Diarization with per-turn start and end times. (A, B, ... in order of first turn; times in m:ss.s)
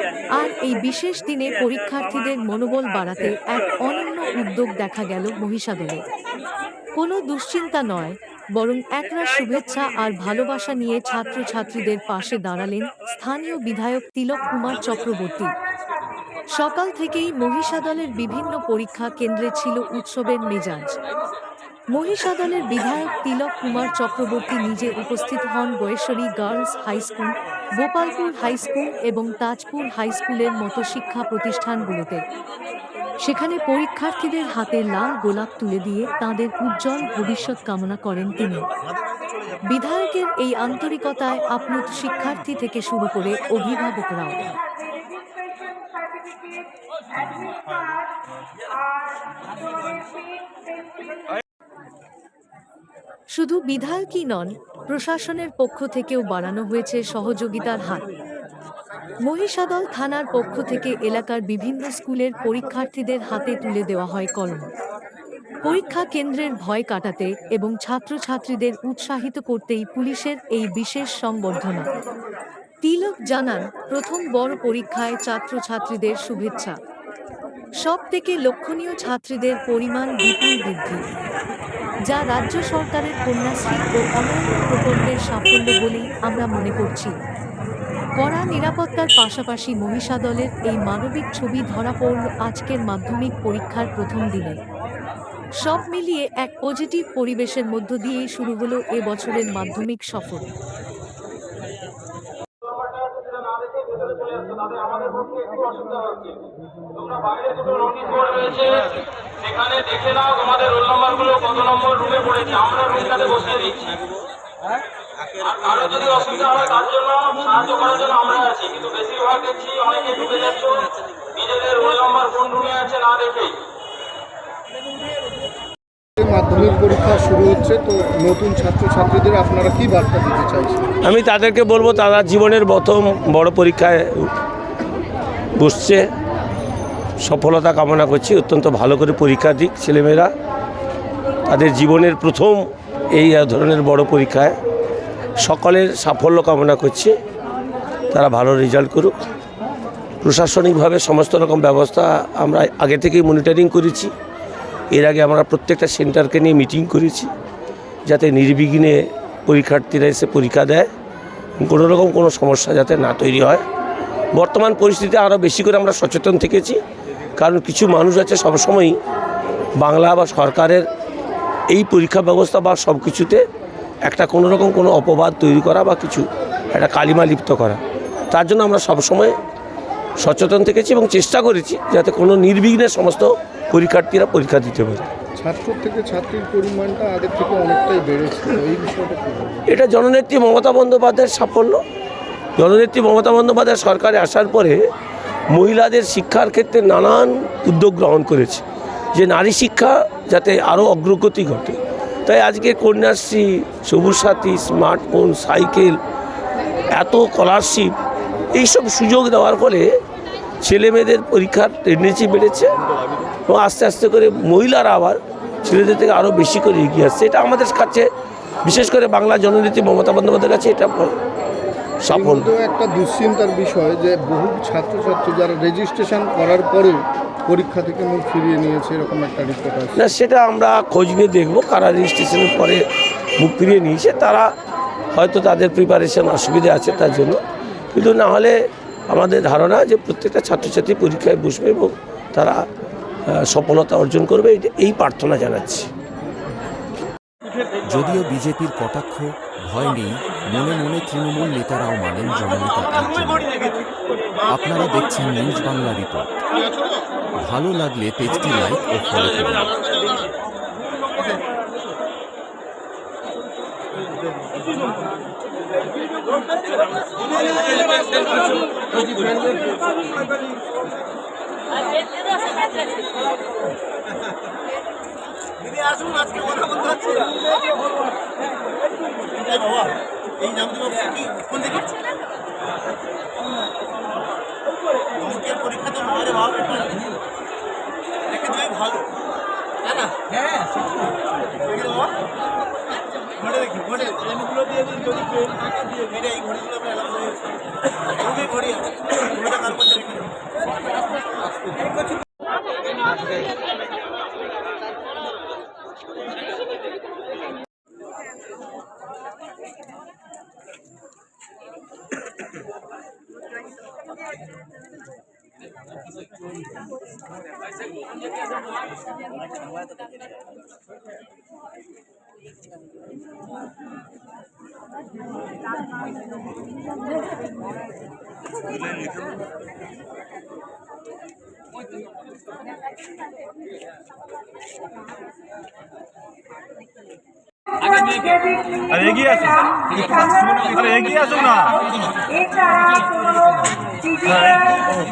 0:00.4-0:06.0 A
0:06.9-0:15.6 A
0:16.5-0:21.0 A
0:21.9-0:32.2 A
0:33.2-0:38.7 A
0:39.6-0:44.5 A
0:44.6-0:48.1 B
0:48.8-0:51.4 B
0:53.3-0:58.0 A
0:59.2-1:04.7 A
1:05.6-1:11.9 A
1:12.8-1:16.8 A
1:17.8-1:21.0 A
1:22.1-1:27.1 A
1:28.2-1:34.6 A
1:35.6-1:40.5 A
1:47.7-1:48.5 C
1:49.6-1:53.6 C
1:55.7-2:00.6 C
2:01.6-2:03.4 C
2:06.2-2:11.0 D
2:11.0-2:14.3 E
2:15.6-2:16.0 E
2:17.2-2:20.3 E
2:21.5-2:24.6 E
2:25.4-2:27.1 E
2:28.1-2:29.2 E
2:30.2-2:34.1 E
2:34.9-2:37.3 E
2:38.0-2:40.9 E
2:41.6-2:43.6 E
2:44.3-2:46.8 E
2:47.4-2:49.0 E
2:49.8-2:50.9 E
2:51.7-2:53.4 E
2:54.1-2:57.8 E
2:58.3-2:59.3 E
3:00.2-3:05.1 E
3:05.4-3:09.6 D
3:09.7-3:11.8 E
3:12.6-3:14.8 E
3:15.5-3:18.6 E
3:19.1-3:26.0 E
3:26.9-3:27.9 E
3:28.5-3:29.9 E
3:30.6-3:32.7 E
3:33.5-3:38.0 E
3:38.6-3:41.2 E
3:42.0-3:42.5 E
3:42.1-3:50.0 D
3:50.0-3:52.8 E
3:53.4-3:54.5 E
3:55.1-3:57.4 E
3:57.9-3:58.6 E
3:59.1-4:02.6 E
4:03.3-4:05.9 E
4:07.8-4:13.7 F
4:14.5-4:16.3 F
4:17.4-4:19.8 F
4:36.0-4:37.1 G
4:40.4-4:41.7 G
4:45.3-4:46.7 G
4:48.5-4:49.0 G
4:51.7-4:52.1 G
4:53.7-4:54.2 G
4:56.1-4:57.3 G
4:58.3-5:00.2 G
5:37.8-5:44.9 B